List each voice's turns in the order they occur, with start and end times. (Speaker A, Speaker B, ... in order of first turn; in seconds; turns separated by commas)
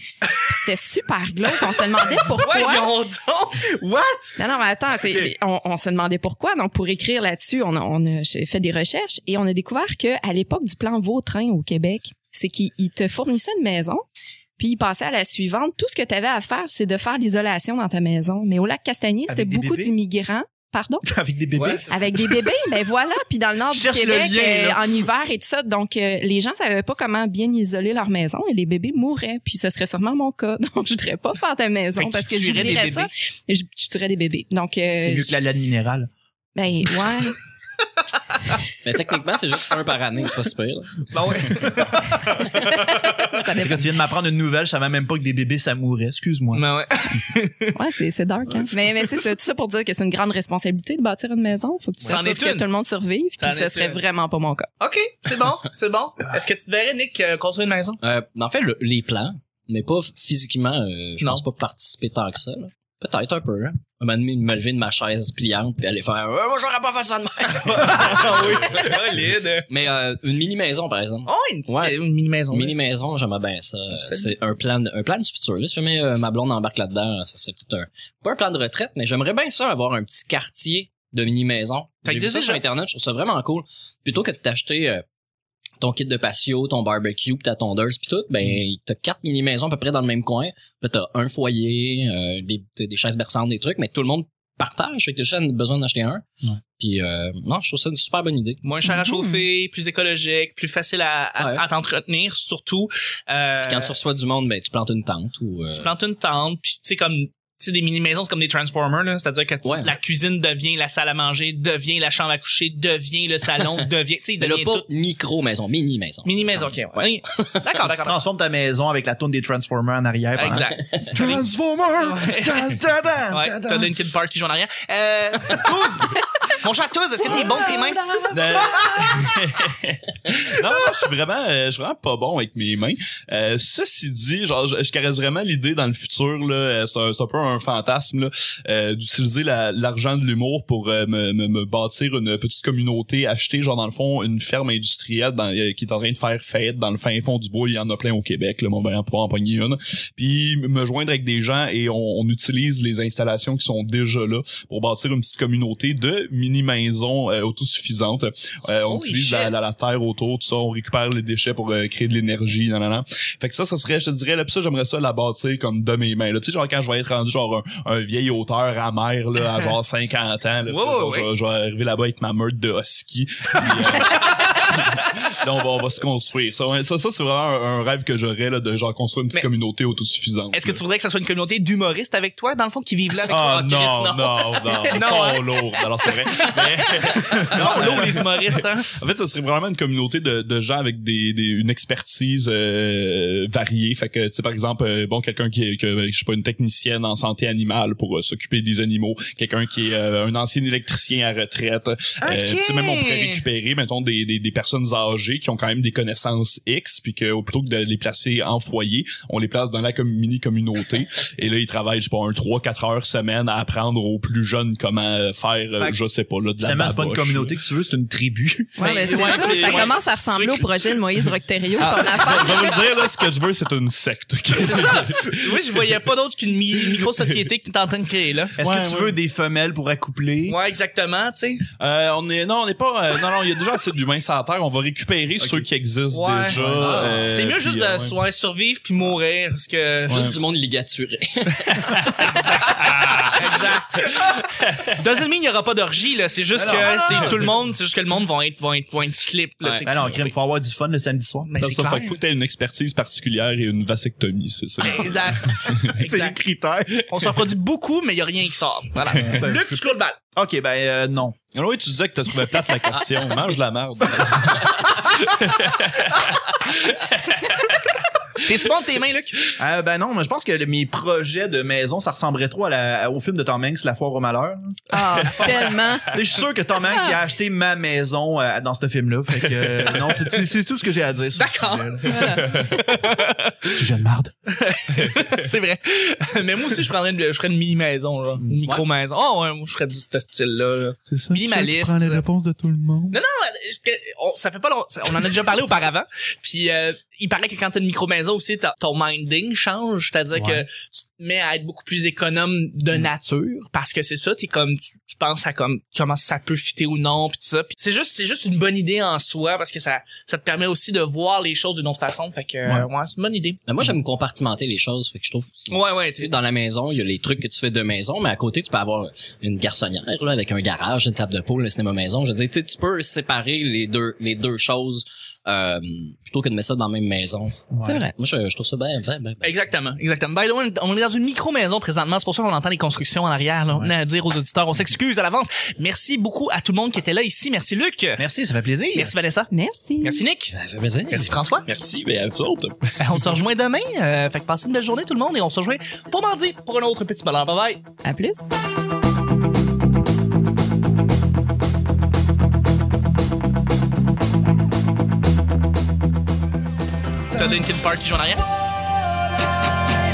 Speaker A: 0.4-2.9, Speaker B: 2.0-3.8, Speaker C: 3.7-4.4, Speaker A: 4.4-14.0, Speaker C: 5.0-5.3, Speaker A: 14.6-21.1, Speaker C: 19.3-19.9, Speaker C: 21.0-22.6, Speaker D: 21.5-22.0, Speaker A: 21.9-35.3, Speaker C: 23.7-25.1, Speaker B: 31.9-33.1, Speaker C: 35.0-36.1, Speaker A: 36.5-37.4, Speaker D: 38.8-41.1, Speaker B: 41.1-42.6, Speaker A: 42.5-43.9, Speaker C: 43.5-46.6, Speaker B: 46.5-47.8, Speaker A: 47.7-54.7, Speaker B: 52.0-52.7, Speaker B: 53.4-54.0, Speaker B: 54.8-58.0, Speaker D: 58.0-69.0, Speaker B: 67.5-69.7, Speaker D: 69.7-72.0, Speaker B: 71.2-72.8, Speaker D: 72.5-85.0, Speaker B: 74.0-74.3, Speaker B: 82.0-82.6, Speaker D: 85.8-96.2, Speaker D: 96.8-98.6, Speaker B: 98.6-103.9, Speaker A: 98.8-99.4, Speaker D: 101.4-101.6, Speaker D: 103.6-105.9, Speaker B: 105.7-114.8, Speaker D: 109.6-109.9, Speaker D: 114.4-117.7, Speaker B: 116.2-118.2, Speaker C: 118.0-123.9, Speaker B: 120.3-121.4, Speaker D: 120.8-121.1, Speaker B: 122.0-122.8, Speaker B: 123.3-128.3, Speaker C: 127.2-129.2, Speaker E: 128.3-180.8, Speaker B: 158.9-159.5, Speaker B: 170.7-171.3, Speaker B: 173.6-174.6, Speaker B: 180.5-183.6, Speaker E: 183.3-217.5, Speaker D: 183.3-185.1, Speaker B: 184.9-185.4, Speaker B: 187.0-188.9, Speaker C: 187.6-188.2, Speaker B: 202.2-203.4, Speaker C: 216.6-218.9, Speaker A: 218.8-222.8, Speaker B: 218.8-220.8, Speaker E: 219.4-219.9, Speaker E: 221.8-225.9, Speaker B: 224.6-228.5, Speaker E: 226.9-227.3, Speaker C: 228.6-230.6, Speaker E: 228.6-229.2, Speaker B: 230.5-231.6, Speaker E: 231.8-238.1, Speaker C: 235.4-235.7, Speaker B: 236.1-240.4, Speaker C: 236.5-237.3, Speaker D: 240.1-242.0, Speaker E: 241.8-243.4, Speaker B: 242.3-244.2, Speaker E: 244.2-245.0, Speaker B: 244.9-250.3, Speaker C: 246.5-247.5, Speaker E: 247.1-247.4, Speaker D: 249.6-249.9, Speaker C: 249.8-251.5, Speaker B: 251.5-252.2, Speaker E: 251.6-256.0, Speaker B: 254.8-256.3, Speaker C: 256.0-257.1, Speaker B: 257.1-260.1, Speaker E: 259.1-259.5, Speaker C: 259.2-259.8, Speaker C: 260.4-261.4, Speaker E: 261.5-267.8, Speaker B: 268.4-269.4, Speaker C: 269.6-282.4, Speaker A: 274.9-276.2, Speaker A: 276.9-277.2, Speaker E: 279.6-280.0, Speaker B: 281.3-283.8, Speaker A: 282.1-282.8, Speaker E: 282.4-282.8, Speaker C: 283.6-284.3, Speaker B: 284.5-292.2, Speaker E: 284.9-285.4, Speaker C: 291.1-293.2, Speaker B: 293.1-313.6, Speaker C: 300.3-300.6, Speaker D: 313.7-329.5, Speaker B: 315.7-316.3, Speaker C: 327.7-328.0, Speaker B: 329.4-338.2, Speaker C: 338.2-339.1, Speaker B: 338.9-339.5, Speaker A: 339.5-340.2, Speaker B: 340.0-340.5, Speaker D: 340.5-341.4, Speaker B: 341.1-341.6, Speaker E: 341.6-343.0, Speaker B: 343.0-347.8, Speaker A: 348.0-348.5, Speaker B: 357.3-358.4